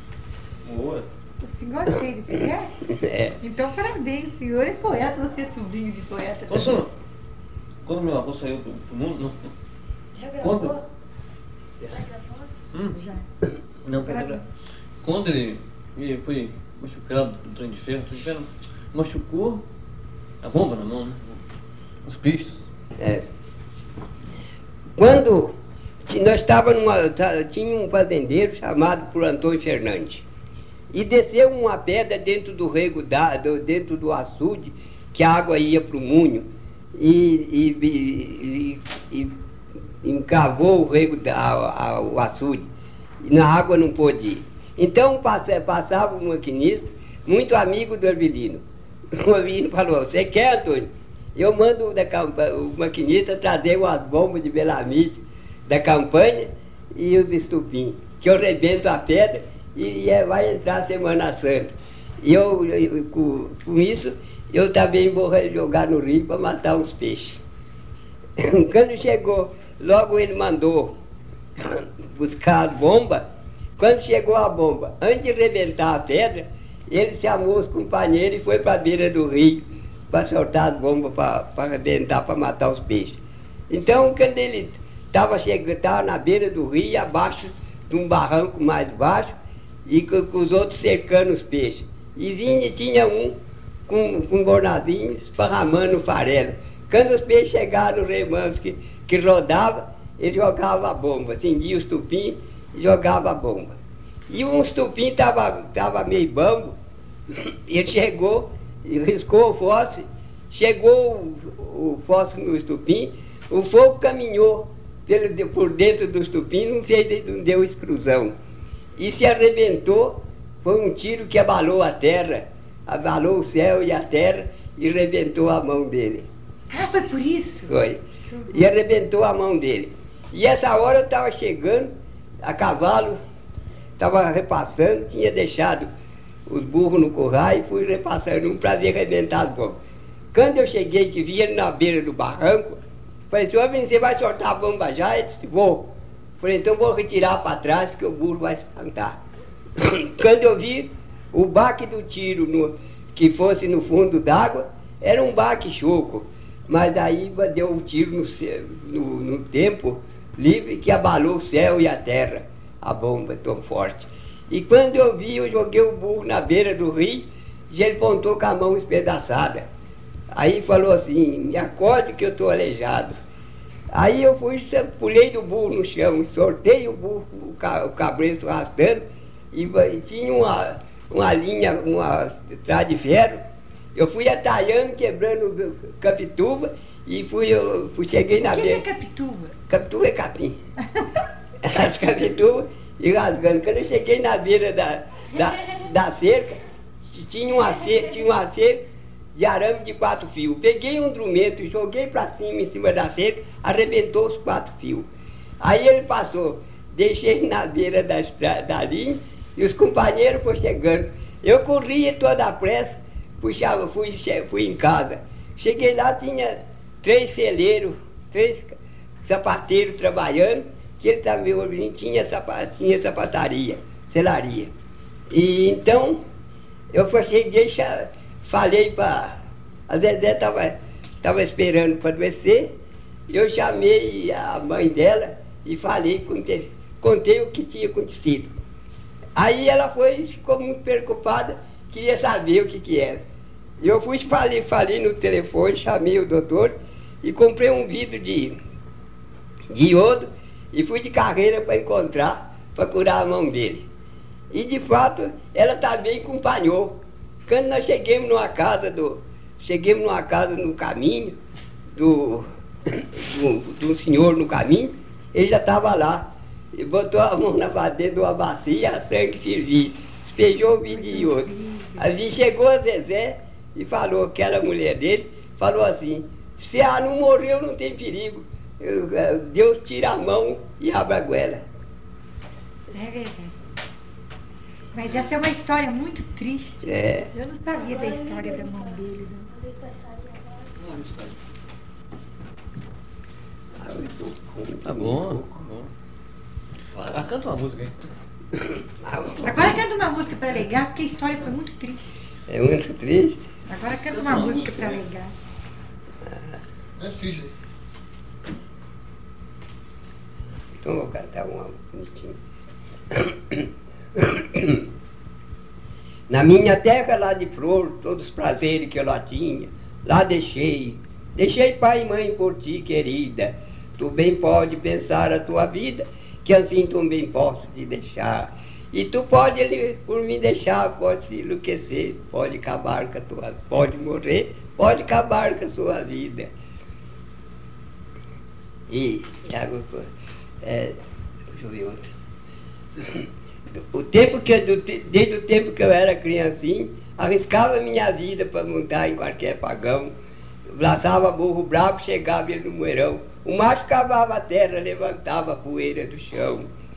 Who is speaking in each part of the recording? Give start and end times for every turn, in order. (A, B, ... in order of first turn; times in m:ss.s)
0:00.6-0:01.1 A
0:01.4-0:02.7 B
0:02.9-0:03.4 C
0:03.4-0:06.8 B
0:06.5-0:06.9 A
0:07.8-0:09.5 A
0:10.2-0:10.8 B
0:10.3-0:10.8 A
0:12.9-0:13.2 B
0:13.8-0:14.4 A
0:14.0-0:14.4 B
0:15.0-0:19.6 A
0:20.4-0:21.4 A
0:22.0-0:22.6 A
0:23.0-0:23.2 C
0:25.0-0:25.5 C
0:26.1-0:30.2 C
0:30.9-0:39.3 C
0:40.0-0:42.7 C
0:43.2-0:48.6 C
0:49.1-1:07.4 C
1:08.4-1:10.9 C
1:11.6-1:13.2 C
1:13.8-1:29.3 C
1:29.8-1:33.4 C
1:33.9-1:43.8 C
1:44.3-1:46.8 C
1:47.3-1:58.3 C
1:59.0-2:06.3 C
2:06.7-2:07.7 B
2:07.7-2:11.9 C
2:08.3-2:08.7 B
2:12.4-2:13.2 C
2:14.0-2:15.9 C
2:16.5-2:19.8 C
2:20.3-2:22.8 C
2:23.3-2:29.2 C
2:29.8-2:49.6 C
2:50.3-2:53.2 C
2:53.9-3:03.4 C
3:03.9-3:08.8 C
3:08.4-3:09.5 B
3:09.7-3:10.6 C
3:11.6-3:16.6 C
3:17.1-3:18.8 C
3:17.9-3:18.2 B
3:19.3-3:25.1 C
3:25.6-3:44.7 C
3:45.3-3:46.2 C
3:46.9-3:49.3 C
3:49.9-3:52.7 C
3:53.3-3:58.5 C
3:59.4-4:03.2 C
4:03.8-4:08.6 C
4:09.7-4:13.8 C
4:14.5-4:17.0 C
4:17.5-4:21.4 C
4:21.9-4:41.6 C
4:30.9-4:32.1 B
4:42.9-4:43.6 B
4:44.9-4:49.6 B
4:46.8-4:47.3 C
4:50.7-4:51.4 A
4:53.8-4:55.5 C
4:54.8-4:55.9 A
4:56.9-4:58.1 A
4:58.6-4:59.8 C
4:59.4-5:02.0 B
5:02.5-5:03.5 C
5:03.7-5:05.3 B
5:04.1-5:05.0 A
5:06.2-5:06.5 C
5:07.0-5:07.5 A
5:10.8-5:12.4 C
5:13.1-5:14.8 C
5:16.3-5:36.5 C
5:38.9-5:40.1 C
5:40.6-5:41.0 C
5:41.5-5:42.1 C
5:43.0-5:50.1 C
5:50.7-5:56.7 C